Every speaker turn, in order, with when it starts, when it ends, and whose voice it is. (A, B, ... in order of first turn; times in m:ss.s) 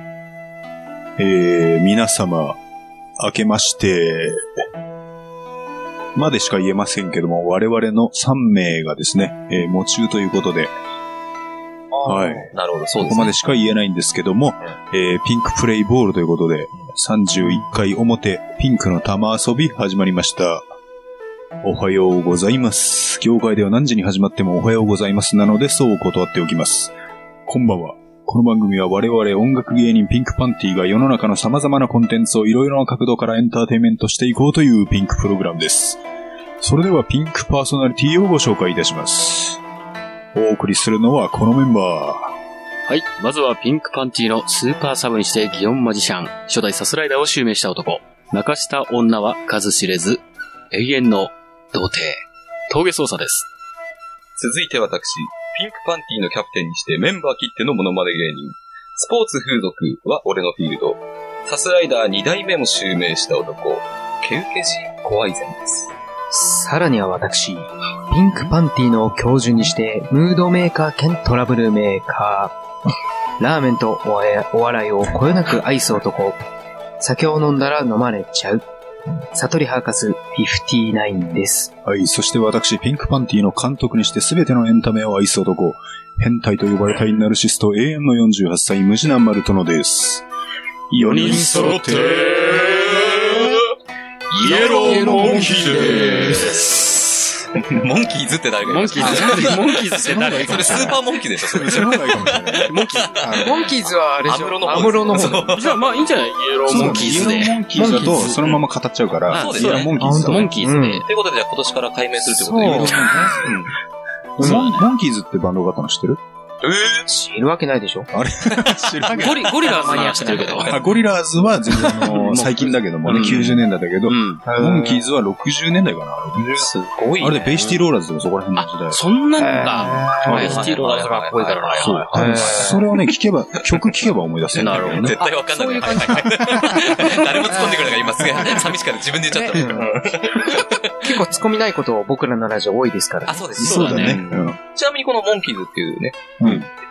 0:01.2-0:02.6 A
0:03.2-0:04.6 A
0:06.1-0:10.7 A
0:11.9-0:12.5 B
0:12.0-0:20.7 A
0:12.5-0:13.3 C
0:21.6-0:26.9 A
0:27.4-0:36.0 A
0:36.6-0:39.6 A
0:40.3-0:42.3 A
0:42.9-0:53.4 D
0:54.4-1:05.9 C
1:06.3-1:12.6 B
1:13.4-1:16.4 B
1:17.0-1:18.6 B
1:19.3-1:21.7 B
1:21.8-1:30.2 A
1:30.9-1:32.3 A
1:31.0-1:33.6 D
1:33.0-1:33.4 C
1:34.3-1:35.3 C
1:34.4-1:37.2 D
1:34.6-1:36.6 A
1:34.6-1:36.5 B
1:37.5-1:45.8 C
1:38.7-1:40.9 D
1:39.0-1:43.6 A
1:42.3-1:43.4 D
1:43.4-1:45.6 B
1:45.0-1:45.4 A
1:45.5-1:48.5 D
1:46.6-1:50.5 A
1:47.7-1:48.2 B
1:49.3-1:50.9 D
1:49.3-1:49.9 C
1:50.0-1:51.0 B
1:50.7-1:53.7 C
1:52.4-1:53.6 A
1:52.4-1:53.5 B
1:54.4-1:54.7 B
1:54.4-1:56.2 A
1:54.4-1:54.8 D
1:56.6-1:57.1 C
1:57.1-1:58.1 B
1:58.1-1:59.7 A
1:58.5-1:59.2 C
1:59.2-2:00.8 D
1:59.6-2:00.7 B
2:00.5-2:01.0 C
2:00.7-2:09.0 A
2:01.7-2:02.3 B
2:02.1-2:04.4 D
2:04.4-2:05.0 B
2:06.6-2:07.5 C
2:08.6-2:12.5 D
2:09.4-2:10.7 B
2:10.2-2:12.8 C
2:11.8-2:15.2 A
2:12.1-2:12.8 B
2:14.5-2:15.2 D
2:14.8-2:21.2 C
2:15.2-2:18.0 B
2:16.4-2:17.2 A
2:18.3-2:18.6 A
2:19.3-2:19.9 B
2:21.0-2:23.5 B
2:23.3-2:26.5 C
2:23.6-2:24.2 D
2:23.6-2:24.6 A
2:26.4-2:26.7 A